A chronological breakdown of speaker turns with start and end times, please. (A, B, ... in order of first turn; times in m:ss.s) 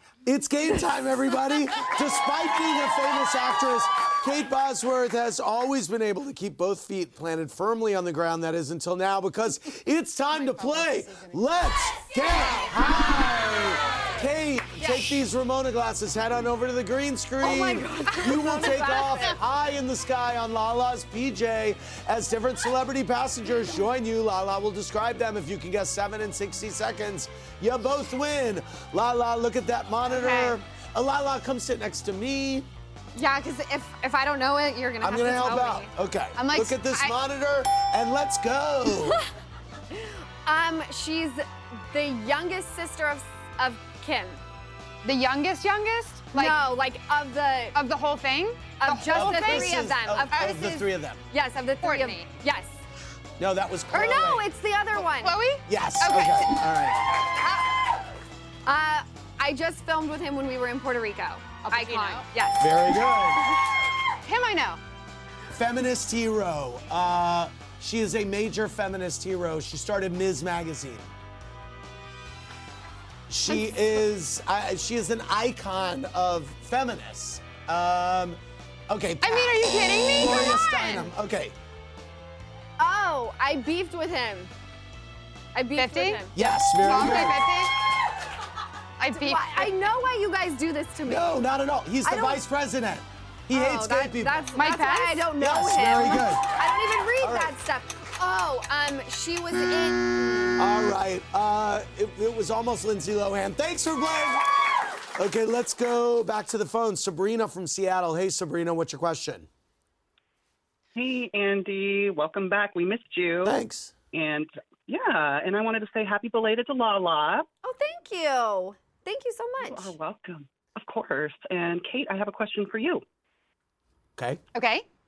0:00.2-0:32.7 A
0:10.3-0:11.5 B
0:14.8-0:15.1 B
0:17.4-0:19.4 C
0:18.1-0:19.2 B
0:30.1-0:30.6 C
0:33.1-0:35.9 C
0:35.0-0:39.2 A
0:36.4-0:37.1 B
0:39.9-0:44.4 C
0:45.0-0:46.6 B
0:46.3-0:47.8 C
0:47.7-0:50.8 B
0:48.8-0:52.8 C
0:49.0-0:51.2 A
0:51.8-0:52.3 B
0:53.4-0:54.4 A
0:53.9-0:55.4 C
0:55.0-0:56.7 B
0:55.6-0:57.1 A
0:57.3-0:57.8 C
0:58.6-1:03.4 C
1:01.6-1:02.3 B
1:02.6-1:03.5 A
1:04.2-1:04.8 B
1:05.5-1:11.1 A
1:13.3-1:19.6 A
1:19.2-1:21.1 B
1:20.1-1:21.5 A
1:22.8-1:24.5 C
1:25.5-1:27.4 C
1:25.7-1:27.7 B
1:26.3-1:27.4 A
1:29.0-1:29.7 B
1:29.1-1:31.4 C
1:31.0-1:34.5 A
1:32.0-1:32.4 C
1:33.5-1:40.6 C
1:34.5-1:35.4 B
1:35.3-1:36.6 A
1:37.2-1:37.5 A
1:40.6-1:44.5 A
1:45.1-1:49.5 A
1:50.9-1:53.6 D
1:53.4-1:53.9 A
1:54.1-1:57.5 D
1:57.6-2:00.0 C
1:59.6-2:03.0 D
2:04.2-2:04.4 A
2:04.5-2:04.8 B